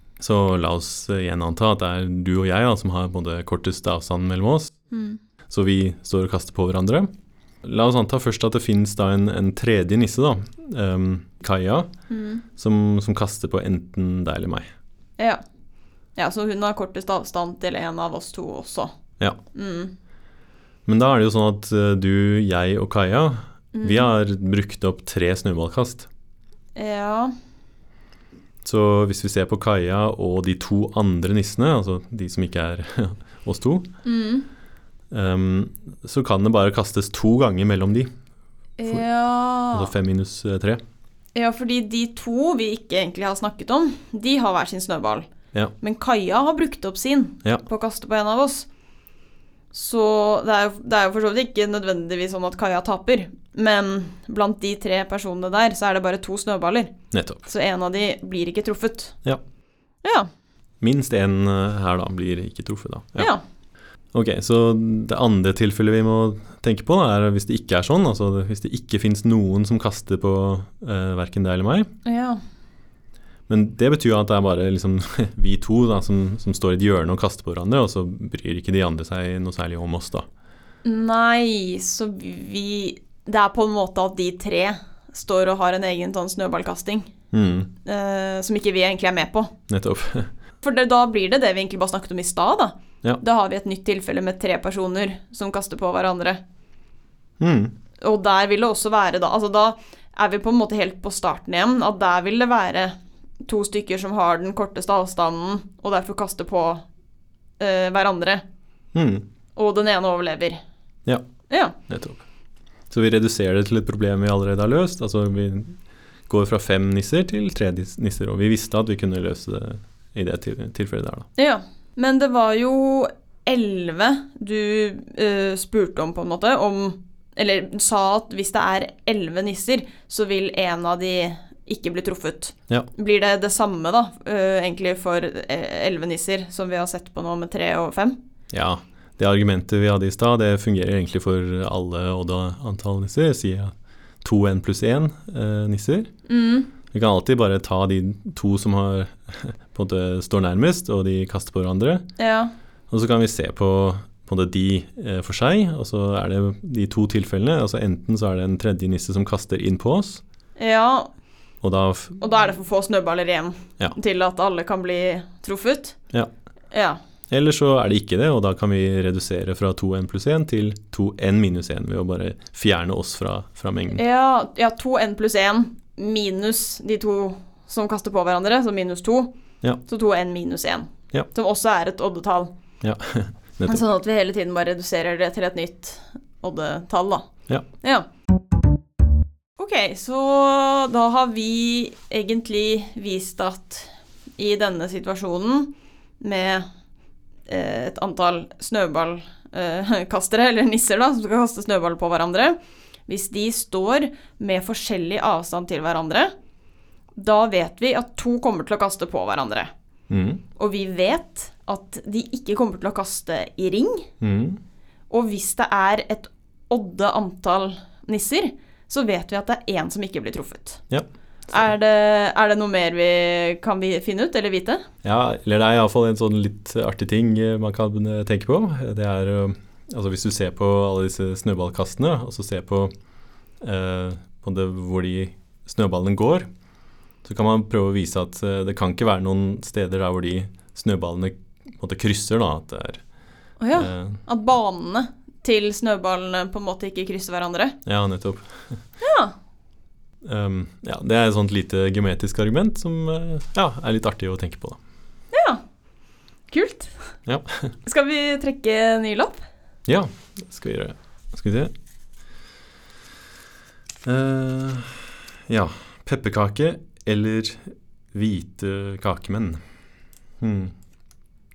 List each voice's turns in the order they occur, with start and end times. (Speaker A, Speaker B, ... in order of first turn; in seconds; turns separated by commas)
Speaker A: 0.2-4.7, Speaker B: 4.9-5.2, Speaker A: 5.5-7.1, Speaker A: 7.6-11.9, Speaker B: 12.1-12.4, Speaker A: 12.6-14.7, Speaker B: 16.1-18.9, Speaker B: 19.5-19.9, Speaker A: 20.9-26.1, Speaker B: 23.7-24.1, Speaker B: 26.8-27.3, Speaker A: 28.6-33.9, Speaker B: 34.0-34.5, Speaker A: 35.1-38.1, Speaker B: 38.8-39.9, Speaker A: 39.7-40.8, Speaker B: 41.3-45.3, Speaker B: 45.8-48.7, Speaker B: 49.7-56.9, Speaker A: 57.1-57.5, Speaker B: 57.5-59.1, Speaker B: 60.0-60.3, Speaker A: 60.8-63.3, Speaker B: 63.2-63.4, Speaker A: 64.1-71.9, Speaker B: 72.0-72.4, Speaker A: 73.5-80.2, Speaker B: 80.8-87.1, Speaker A: 87.3-87.7, Speaker B: 87.8-89.5, Speaker A: 89.7-90.3, Speaker B: 90.6-96.4, Speaker A: 97.4-97.7, Speaker B: 98.0-106.8, Speaker B: 107.6-108.4, Speaker A: 108.9-109.2, Speaker B: 109.5-110.6, Speaker B: 111.5-111.8, Speaker A: 111.9-112.2, Speaker A: 112.9-121.3, Speaker B: 121.3-138.2, Speaker A: 138.5-146.1, Speaker B: 146.3-146.7, Speaker A: 146.9-152.0, Speaker B: 152.2-152.5, Speaker A: 152.9-160.2, Speaker B: 160.6-161.1, Speaker A: 161.6-162.2, Speaker B: 162.2-165.9, Speaker B: 166.7-167.0, Speaker A: 167.3-174.0, Speaker B: 173.9-179.3, Speaker B: 179.8-182.5, Speaker A: 182.8-183.8, Speaker B: 183.7-187.3, Speaker B: 187.8-188.1, Speaker B: 189.6-196.6, Speaker B: 197.5-202.6, Speaker B: 203.1-206.3, Speaker B: 207.2-209.7, Speaker A: 210.1-210.4, Speaker B: 210.6-214.1, Speaker A: 214.2-214.6, Speaker B: 215.1-220.8, Speaker A: 220.9-221.5, Speaker B: 221.5-224.8, Speaker A: 225.0-232.9, Speaker A: 233.6-236.5, Speaker A: 237.2-243.0, Speaker B: 243.6-247.8, Speaker A: 243.7-244.2, Speaker A: 247.8-248.6, Speaker B: 249.0-249.3, Speaker A: 250.2-254.8, Speaker B: 255.3-255.6, Speaker B: 256.5-256.9, Speaker A: 257.2-257.7, Speaker B: 257.8-259.4, Speaker A: 259.9-261.7, Speaker A: 264.0-269.6, Speaker A: 270.4-270.7